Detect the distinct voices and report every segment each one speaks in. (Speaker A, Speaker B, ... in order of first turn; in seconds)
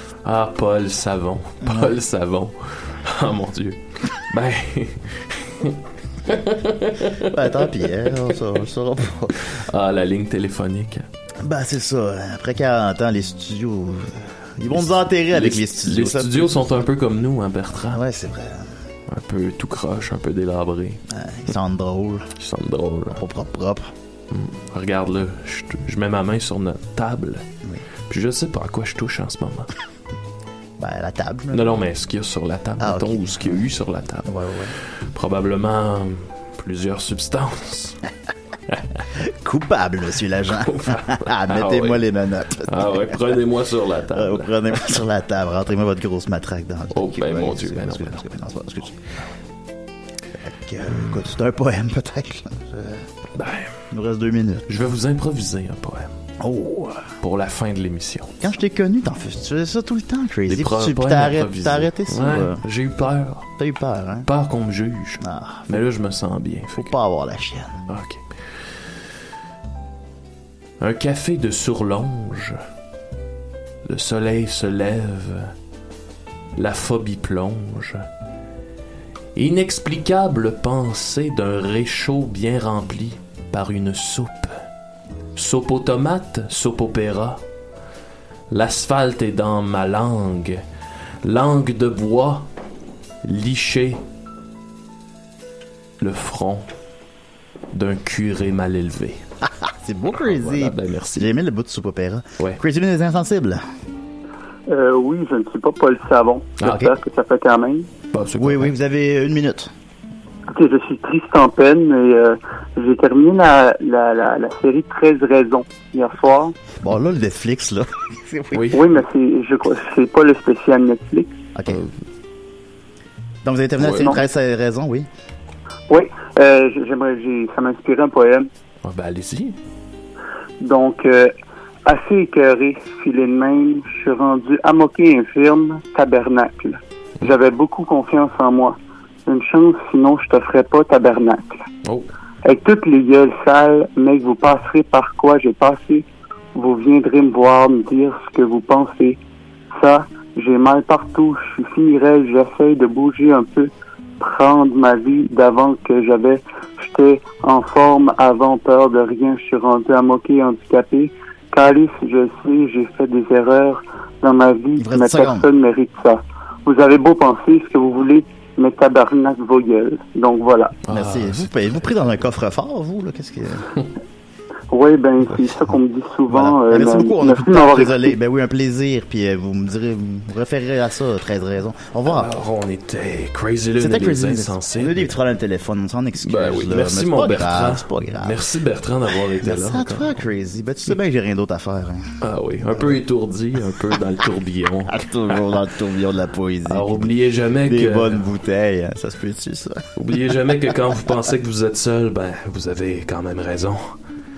Speaker A: 0.2-7.6, 9.5-11.1, 15.3-18.0, 19.1-21.0, 22.4-23.2, 24.3-27.4, 28.1-29.7, 31.5-34.3, 34.9-38.0, 40.7-42.0, 42.7-44.5, 46.9-48.5, 53.4-53.8, 54.7-56.1, 57.2-58.4, 60.5-63.5, 64.3-66.9, 67.9-68.2, 70.8-72.6, 73.8-75.5, 76.6-78.1, 79.3-84.5, 85.4-87.4, 88.5-90.6, 91.2-92.5, 93.2-94.0, 96.0-96.7, 97.7-99.2, 100.2-101.3, 106.6-107.0, 108.1-108.7, 118.5-118.9, 121.7-121.9, 123.8-124.2, 128.8-129.6, 170.9-171.5, 182.1-185.1, 186.2-190.2, 192.2-195.0, 196.7-198.2, 200.0-204.0
Speaker B: 1.6-2.0, 7.2-9.6, 11.4-16.7, 17.9-18.8, 21.1-22.3, 23.1-23.9, 30.8-31.8, 32.8-33.6, 34.2-34.8, 39.2-43.4, 44.1-49.0, 50.4-53.0, 53.9-54.7, 56.4-57.1, 58.4-62.6, 63.6-64.3, 65.2-65.8, 66.8-67.8, 99.4-103.6, 108.4-109.7, 116.8-118.7, 121.5-121.8, 123.4-125.1, 164.8-165.4, 170.9-173.7, 176.3-182.3, 183.8-188.4, 189.4-192.2, 194.9-197.1, 197.7-199.8
Speaker C: 104.7-107.9, 110.5-116.6, 118.7-121.3, 125.9-128.5, 130.6-131.3, 131.8-141.6, 142.4-149.2, 149.7-170.8, 174.7-178.2